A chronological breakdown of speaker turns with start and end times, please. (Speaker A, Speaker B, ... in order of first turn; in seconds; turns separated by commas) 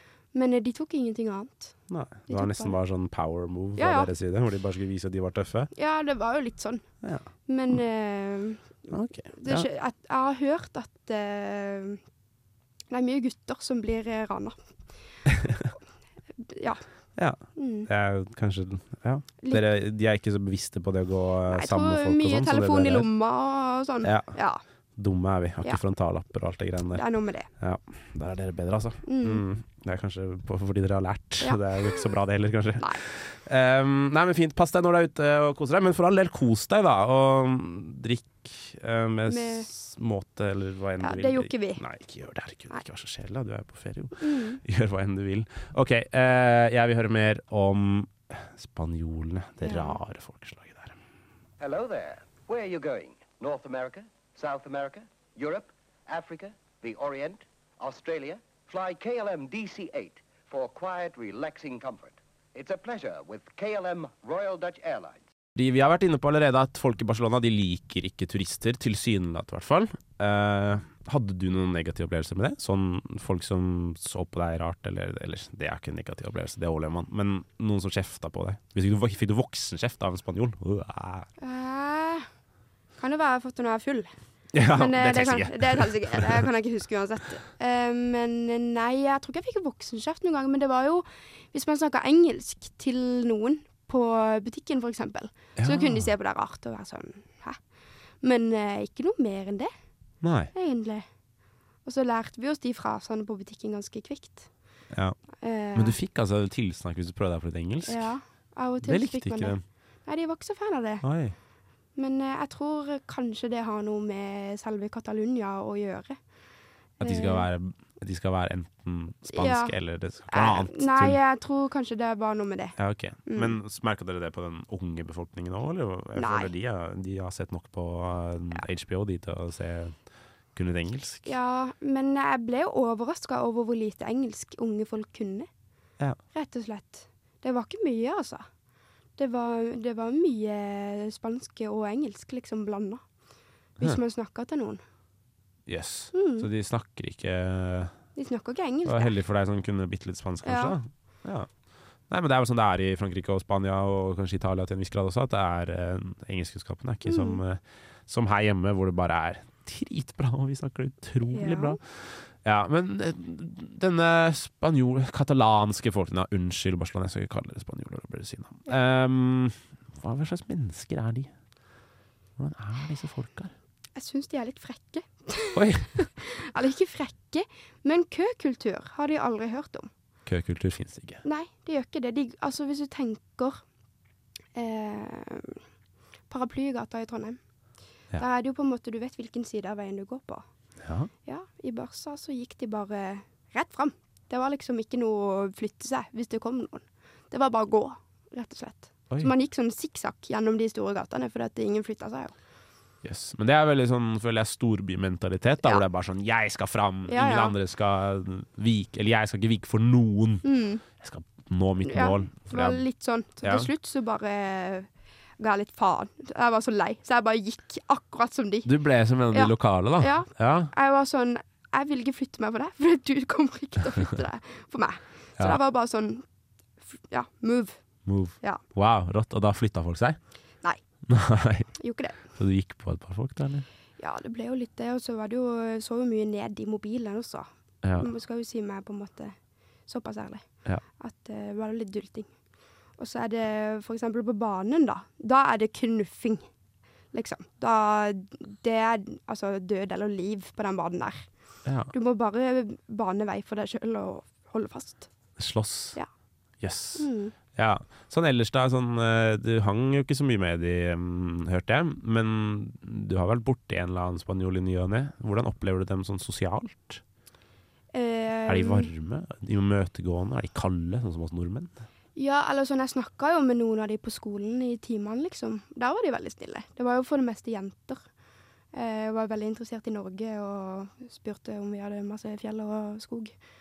Speaker A: 0.3-1.8, Speaker B: 1.9-5.7, Speaker A: 2.3-2.8, Speaker A: 3.8-4.1, Speaker A: 5.7-6.8, Speaker B: 7.0-7.7, Speaker A: 7.5-8.8, Speaker B: 8.9-9.7, Speaker A: 9.3-12.0, Speaker A: 12.9-14.6, Speaker B: 15.3-15.6, Speaker A: 16.4-16.8, Speaker B: 17.1-23.1, Speaker A: 17.6-17.9, Speaker A: 21.5-24.6, Speaker B: 24.0-24.3, Speaker B: 24.9-27.1, Speaker A: 26.9-27.5, Speaker B: 27.6-51.0, Speaker A: 29.1-29.4, Speaker A: 39.3-39.7, Speaker A: 41.0-41.8, Speaker A: 44.2-44.6, Speaker A: 49.6-50.0, Speaker C: 51.6-65.2, Speaker B: 65.5-81.3, Speaker A: 81.4-82.2, Speaker A: 83.0-84.1, Speaker B: 84.5-86.5, Speaker A: 84.7-97.6, Speaker B: 95.6-96.1, Speaker A: 98.2-99.7, Speaker B: 100.2-100.5, Speaker A: 100.5-101.0, Speaker A: 101.8-104.5, Speaker B: 104.9-105.2, Speaker A: 105.4-106.0, Speaker B: 105.7-108.1, Speaker A: 107.8-111.0, Speaker B: 108.8-109.6, Speaker B: 111.0-111.3, Speaker A: 112.0-116.2, Speaker A: 117.0-117.5, Speaker B: 117.0-121.2, Speaker A: 119.3-119.8, Speaker A: 120.3-123.5, Speaker B: 122.8-129.9, Speaker A: 126.2-126.5, Speaker B: 130.5-131.3, Speaker A: 131.2-135.5, Speaker A: 136.3-138.4, Speaker A: 139.2-143.0, Speaker A: 143.8-144.8, Speaker B: 145.7-147.9, Speaker A: 146.1-146.5, Speaker A: 148.2-149.2, Speaker B: 148.8-151.5, Speaker A: 150.4-150.8, Speaker B: 152.1-171.3, Speaker A: 157.1-157.4, Speaker A: 161.3-161.8, Speaker B: 172.4-173.5, Speaker A: 173.9-179.9, Speaker B: 175.5-175.9, Speaker B: 180.2-181.2, Speaker A: 181.2-183.6, Speaker A: 184.5-185.6, Speaker A: 186.3-187.4, Speaker A: 188.2-190.4, Speaker B: 190.8-191.1, Speaker A: 191.2-202.3, Speaker B: 203.0-210.4, Speaker A: 207.1-207.5, Speaker A: 210.4-210.8, Speaker B: 211.0-212.8, Speaker A: 211.8-218.7, Speaker B: 213.4-213.7, Speaker B: 218.6-220.7, Speaker A: 219.3-226.2, Speaker A: 226.9-227.8, Speaker B: 228.1-230.2, Speaker B: 231.1-231.7, Speaker A: 231.8-232.2, Speaker B: 232.3-233.7, Speaker A: 234.0-239.3, Speaker B: 237.8-238.1, Speaker A: 239.9-240.4, Speaker A: 241.0-242.3, Speaker A: 243.0-246.4, Speaker A: 247.1-251.3, Speaker B: 251.6-251.9, Speaker A: 251.9-255.1, Speaker B: 255.4-256.0, Speaker B: 256.6-267.0, Speaker A: 256.9-257.3, Speaker A: 267.9-268.9, Speaker B: 268.5-271.8, Speaker A: 272.1-278.0, Speaker A: 278.7-283.3